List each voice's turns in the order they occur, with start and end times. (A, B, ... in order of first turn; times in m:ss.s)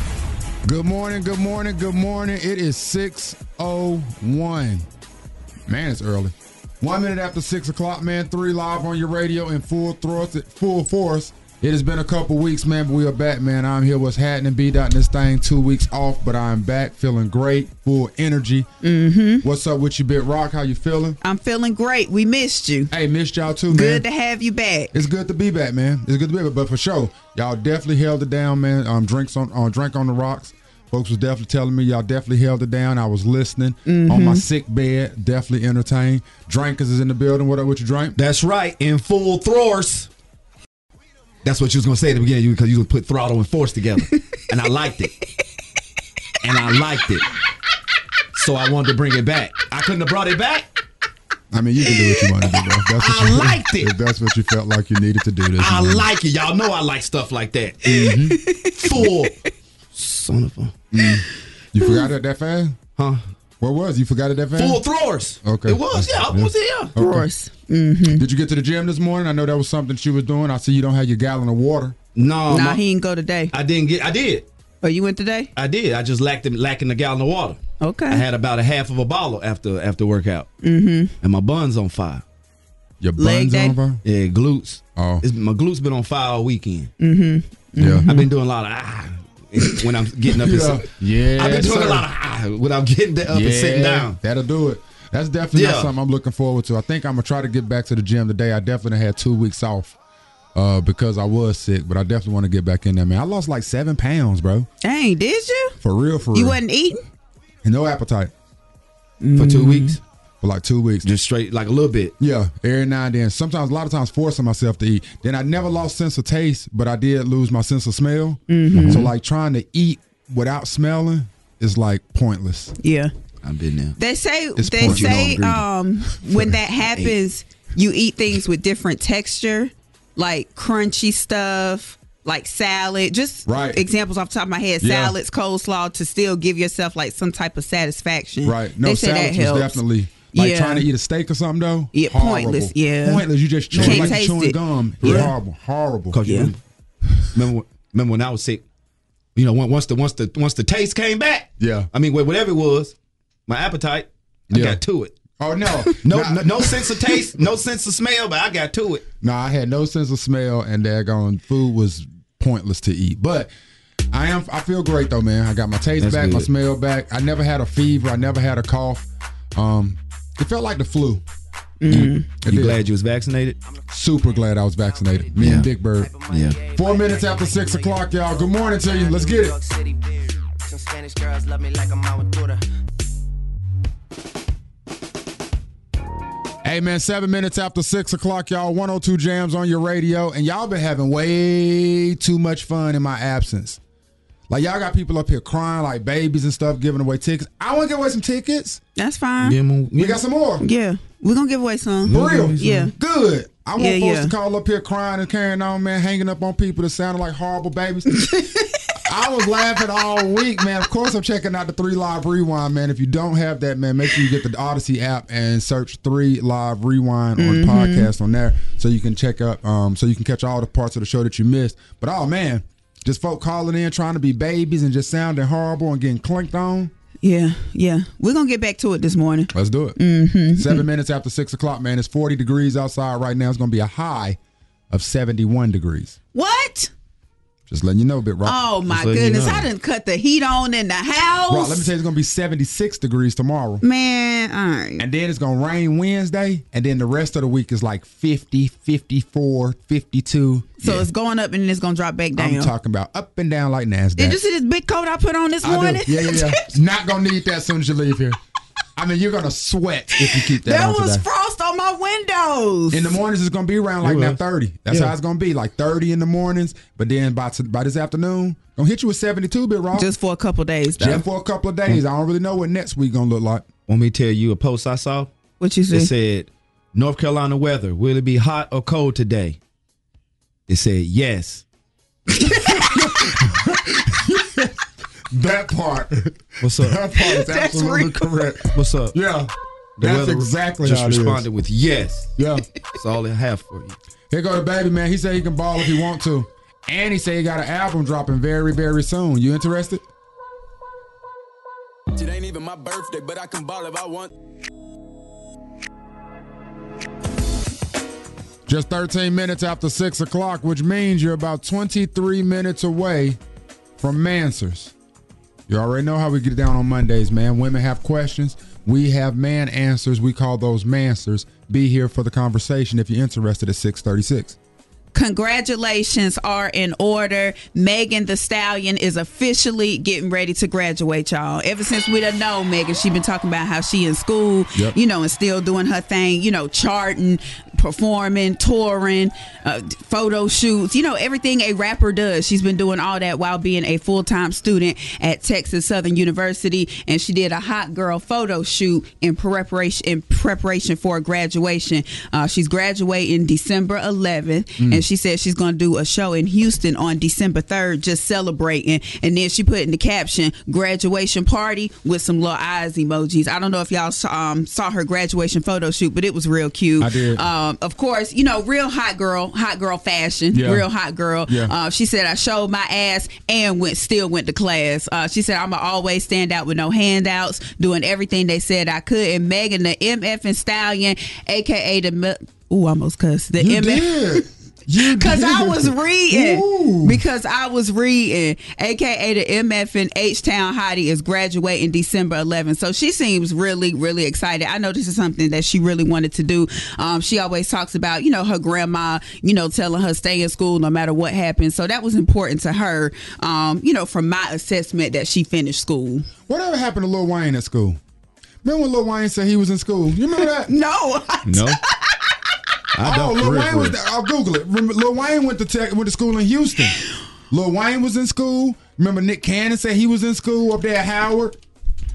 0:00.6-0:04.9 A
0:05.7-0:18.7 A
0:18.8-0:19.4 B
0:19.4-0:21.2 A
0:21.2-0:22.9 B
0:22.9-0:24.0 A
0:23.7-0:24.9 B
0:24.9-0:38.2 A
0:33.9-0:34.4 B
0:38.2-0:40.1 C
0:41.4-0:45.2 C
0:46.4-0:47.3 C
0:48.3-0:50.7 C
0:51.5-0:56.1 A
0:53.0-0:53.9 C
0:55.6-0:58.0 C
0:57.8-0:58.4 A
0:57.9-0:59.3 B
0:58.8-0:59.4 C
1:00.0-1:00.8 C
1:00.9-1:02.8 A
1:03.0-1:03.2 C
1:03.6-1:04.8 A
1:04.6-1:06.9 C
1:05.4-1:07.3 A
1:07.0-1:08.2 B
1:08.1-1:12.0 A
1:12.2-1:12.8 C
1:12.5-1:13.5 B
1:13.5-1:14.5 C
1:14.8-1:15.5 B
1:15.6-1:20.5 C
1:17.8-1:18.2 B
1:20.6-1:21.1 B
1:21.2-1:22.2 C
1:23.0-1:24.0 A
1:23.2-1:23.8 B
1:24.0-1:26.9 C
1:25.0-1:25.2 A
1:27.0-1:28.3 B
1:27.8-1:28.0 A
1:28.0-1:34.2 C
1:30.4-1:32.1 A
1:33.3-1:40.0 A
1:35.5-1:35.9 C
1:40.6-1:44.7 A
1:44.8-1:45.8 B
1:45.8-1:46.6 A
1:46.3-1:47.0 B
1:47.6-1:48.3 A
1:49.2-1:50.0 B
1:49.4-1:50.0 C
1:50.4-1:51.1 A
1:51.0-1:52.1 C
1:52.2-2:02.7 A
1:58.5-1:59.1 B
1:58.7-1:59.1 C
2:02.8-2:03.1 B
2:03.4-2:04.0 C
2:04.0-2:19.8 B
2:04.6-2:06.6 A
2:13.5-2:13.8 A
2:14.8-2:15.2 A
2:18.4-2:26.2 A
2:20.3-2:20.9 B
2:21.9-2:25.3 B
2:23.8-2:24.1 C
2:25.0-2:25.3 C
2:26.1-2:26.6 C
2:26.2-2:26.5 B
2:27.2-2:28.6 C
2:29.4-2:32.9 C
2:31.6-2:31.9 A
2:33.5-2:35.2 C
2:34.5-2:34.8 A
2:35.4-2:36.9 A
2:36.0-2:39.0 C
2:39.2-2:43.5 A
2:44.1-2:51.2 A
2:46.0-2:46.5 C
2:51.8-2:52.3 B
2:51.9-2:52.8 A
2:51.9-2:53.6 C
2:53.6-3:02.6 D
2:53.9-2:56.1 A
2:55.4-2:55.7 C
2:56.3-2:56.6 C
2:56.7-2:59.6 A
3:06.6-3:13.8 A
3:14.5-3:18.8 A
3:19.0-3:19.6 B
3:19.4-3:20.2 C
3:20.0-3:20.6 A
3:20.6-3:22.9 B
3:22.1-3:22.8 C
3:22.1-3:28.3 A
3:23.8-3:24.3 B
3:28.1-3:28.8 B
3:29.0-3:46.9 A
3:37.4-3:38.1 B
3:47.2-3:50.8 B
3:49.5-3:50.0 A
3:50.5-3:54.4 A
3:54.9-3:56.2 A
3:56.3-3:56.9 B
3:57.7-3:58.6 A
3:58.4-4:01.9 B
3:58.9-3:59.7 C
4:01.5-4:03.8 A
4:03.8-4:05.0 B
4:05.0-4:11.1 A
4:10.8-4:12.7 B
4:12.4-4:14.4 A
4:14.2-4:16.8 B
4:15.6-4:18.4 A
4:19.0-4:21.2 A
4:20.2-4:23.2 B
4:22.9-4:30.1 A
4:24.0-4:25.1 C
4:30.0-4:31.2 B
4:31.0-4:33.7 A
4:33.9-4:35.3 C
4:35.6-4:36.1 B
4:35.9-4:39.6 C
4:40.7-4:41.6 C
4:42.4-4:51.5 A
4:42.5-4:42.8 B
4:46.6-4:47.2 C
4:47.2-4:48.4 B
4:48.7-4:49.2 C
4:50.0-4:52.4 C
4:52.4-4:52.7 A
4:53.0-4:54.0 C
4:54.3-5:00.0 A
5:02.2-5:04.3 E
5:08.7-5:13.4 A
5:14.0-5:14.9 A
5:15.7-5:24.6 A
5:25.1-6:24.4 B
6:07.0-6:07.4 A
6:10.5-6:10.9 A
6:11.5-6:11.7 A
6:23.6-6:27.2 A
6:25.0-6:46.3 B
6:46.5-6:48.0 A
6:48.6-6:50.7 A
6:50.4-6:52.4 B
6:51.5-6:51.8 C
6:52.9-6:54.0 C
6:53.0-6:57.0 A
6:57.5-7:01.6 A